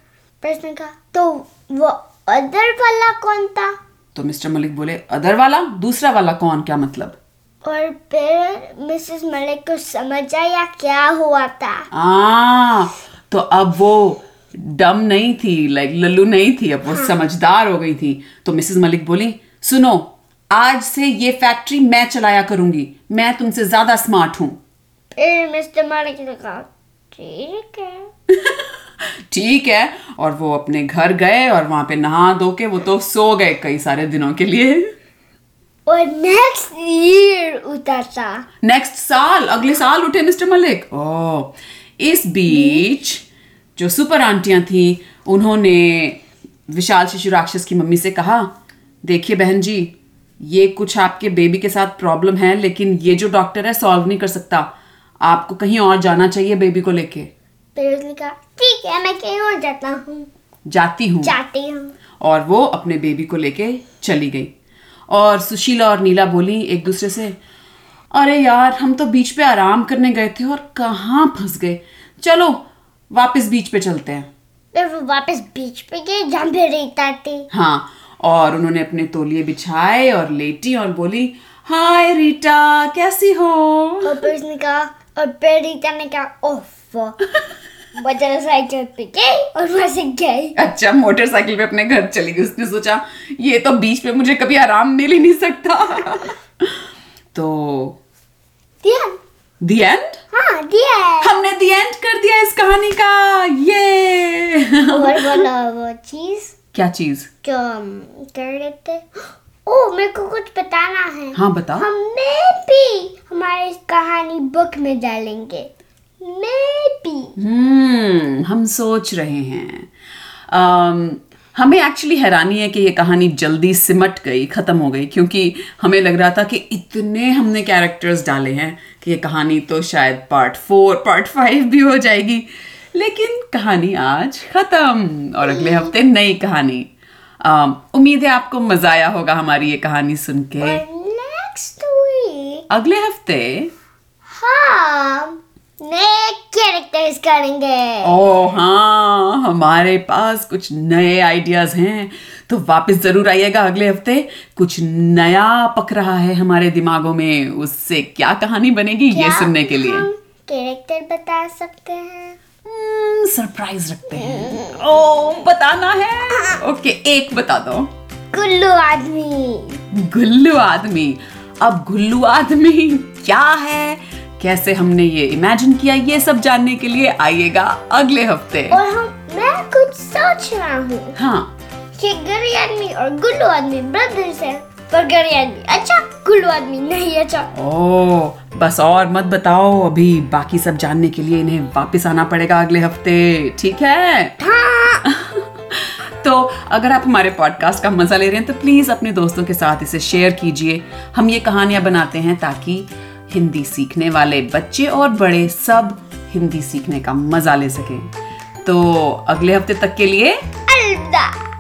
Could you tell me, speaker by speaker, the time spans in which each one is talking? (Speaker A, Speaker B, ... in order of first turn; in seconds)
Speaker A: 0.4-3.8, 7.6-11.9, 25.1-28.1, 35.9-38.5, 42.5-42.9, 57.8-60.3, 61.2-62.0, 74.7-77.5, 84.0-87.2, 88.0-90.6, 98.8-99.2, 100.3-101.3, 104.8-106.5, 107.4-115.7, 116.2-117.4, 135.4-135.9, 140.6-142.7, 144.3-148.2, 159.1-162.4, 164.2-164.7, 168.3-169.8, 178.7-181.2, 182.0-187.5, 194.4-195.1, 210.7-211.4
Speaker B: 4.2-7.2, 11.9-24.6, 28.4-28.6, 29.3-34.9, 38.6-43.2, 43.8-48.5, 49.0-54.7, 55.2-57.3, 60.7-61.3, 62.2-64.5, 65.1-67.4, 68.1-74.3, 77.5-84.3, 90.6-96.8, 97.3-98.0, 99.6-100.2, 101.2-105.4, 106.7-107.3, 111.3-111.9, 117.4-119.9, 120.5-136.9, 137.4-140.8, 142.7-143.7, 148.0-160.1, 162.7-167.9, 169.9-178.8, 181.2-181.5, 187.5-194.3, 195.1-208.1, 208.6-210.4